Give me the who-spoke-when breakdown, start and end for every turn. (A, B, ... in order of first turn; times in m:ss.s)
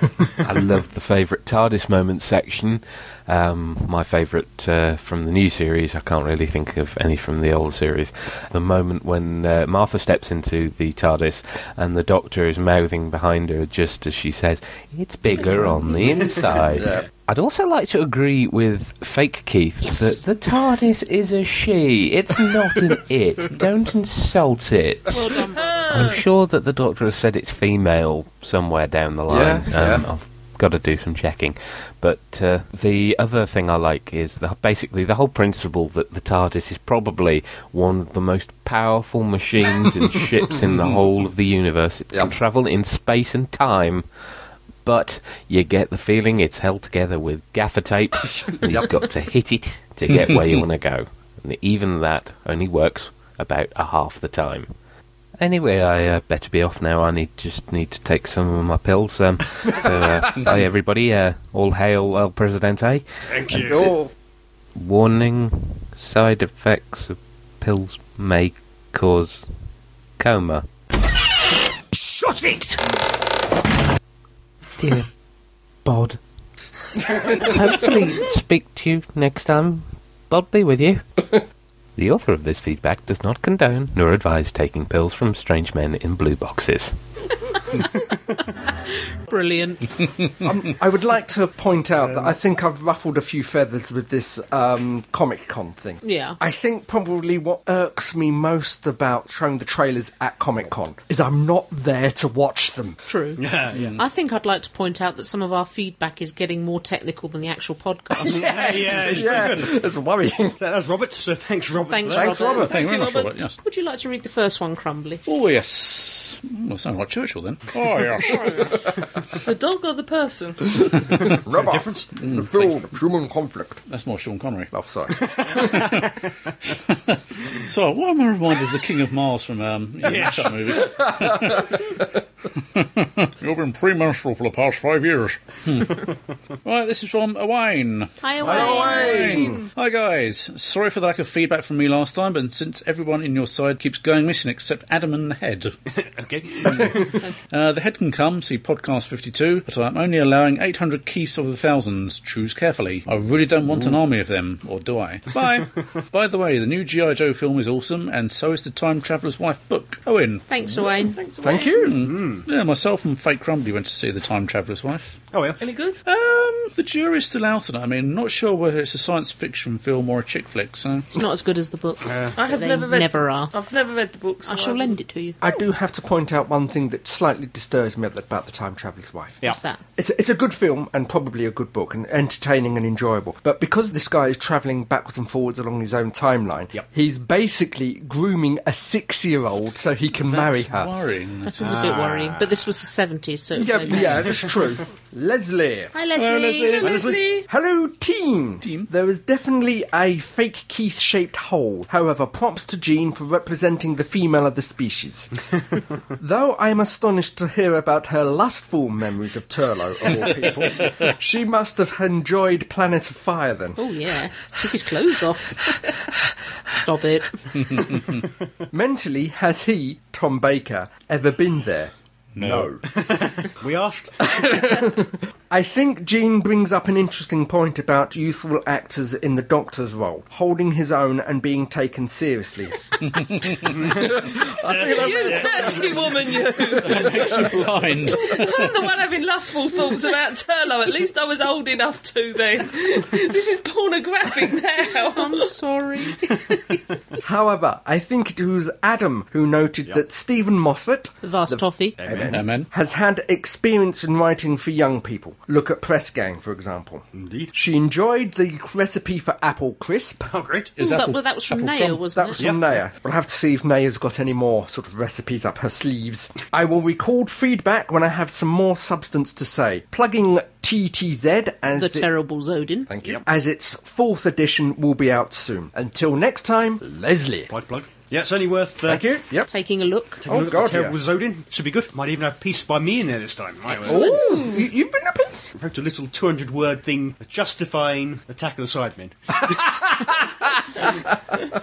0:00.4-0:25.4 A
0:15.3-0:16.7 B
0:16.8-0:17.0 C
0:19.8-0:20.2 B
0:25.1-0:26.2 B
0:25.2-0:26.2 D
0:25.9-0:44.1 A
0:29.3-0:30.0 C
0:44.8-0:54.7 A
0:48.6-0:48.9 C
0:50.1-0:50.6 E
0:55.4-1:03.0 A
1:03.3-1:04.0 F
1:03.6-1:04.1 C
1:04.8-1:09.5 A
1:10.2-1:10.7 A
1:11.9-1:12.8 C
1:14.8-1:15.1 A
1:15.8-1:16.2 A
1:17.2-1:21.4 A
1:22.0-1:27.0 A
1:28.6-1:30.0 B
1:30.4-1:43.0 C
1:36.0-1:36.4 B
1:43.1-1:49.1 B
1:43.4-1:44.0 F
1:43.7-1:44.0 E
1:48.2-1:50.6 C
1:48.2-1:49.8 F
1:50.6-1:52.5 F
1:51.9-1:52.9 B
1:52.1-1:52.7 C
1:52.6-1:53.4 D
1:52.6-1:53.6 E
1:53.6-1:55.2 B
1:55.3-1:58.6 E
1:58.2-1:58.9 D
1:58.3-1:58.5 B
1:59.4-2:00.8 D
2:00.8-2:03.8 C
2:01.5-2:02.1 F
2:02.2-2:02.7 E
2:03.9-2:04.7 E
2:04.7-2:05.9 C
2:05.2-2:06.1 F
2:05.7-2:06.1 E
2:06.7-2:12.0 E
2:10.0-2:10.8 F
2:10.9-2:11.9 C
2:12.6-2:16.1 E
2:16.6-2:25.8 E
2:18.2-2:19.5 B
2:18.4-2:19.6 C
2:18.5-2:19.7 D
2:25.9-2:27.1 F
2:26.7-2:40.8 E
2:40.5-2:41.2 B
2:40.7-2:41.9 D
2:41.4-2:42.0 C
2:41.8-2:45.2 E
2:42.0-2:42.5 F
2:45.3-2:45.6 F
2:45.6-2:46.0 D
2:46.1-2:51.1 E
2:51.1-2:53.5 B
2:52.0-2:52.4 F
2:52.4-2:55.0 D
2:54.4-2:55.4 B
2:55.4-2:59.4 C
2:59.4-2:59.8 B
3:00.0-3:10.9 C
3:10.2-3:11.8 E
3:11.4-3:14.4 B
3:11.6-3:12.5 F
3:13.6-3:15.9 C
3:15.9-3:17.1 B
3:16.2-3:17.1 E
3:16.8-3:17.2 F
3:16.8-3:17.5 D
3:17.5-3:25.3 C
3:18.6-3:18.9 E
3:26.2-3:33.8 C
3:33.8-3:35.9 B
3:36.7-3:37.8 B
3:37.7-3:38.2 E
3:38.7-3:42.8 C
3:42.4-3:42.7 E
3:42.9-3:44.7 F
3:44.2-3:52.8 C
3:53.0-3:53.8 E
3:53.7-3:56.2 F
3:53.8-3:55.8 C
3:54.7-3:57.5 D
3:56.8-3:58.8 E
3:58.0-4:05.5 D
4:05.1-4:06.8 B
4:07.2-4:20.3 C
4:11.2-4:12.0 B
4:12.0-4:12.4 F
4:12.3-4:12.7 E
4:17.1-4:17.5 F
4:20.3-4:20.7 F
4:20.8-4:22.0 E
4:20.8-4:22.5 B
4:22.2-4:32.1 C
4:31.7-4:32.9 B
4:32.9-4:37.5 C
4:37.5-4:39.0 F
4:38.8-4:39.5 C
4:39.5-4:40.2 B
4:40.2-4:41.0 C
4:40.2-4:44.2 F
4:43.7-4:44.4 B
4:43.8-4:45.6 C
4:43.9-4:44.6 D
4:45.6-4:49.9 F
4:49.5-4:50.5 C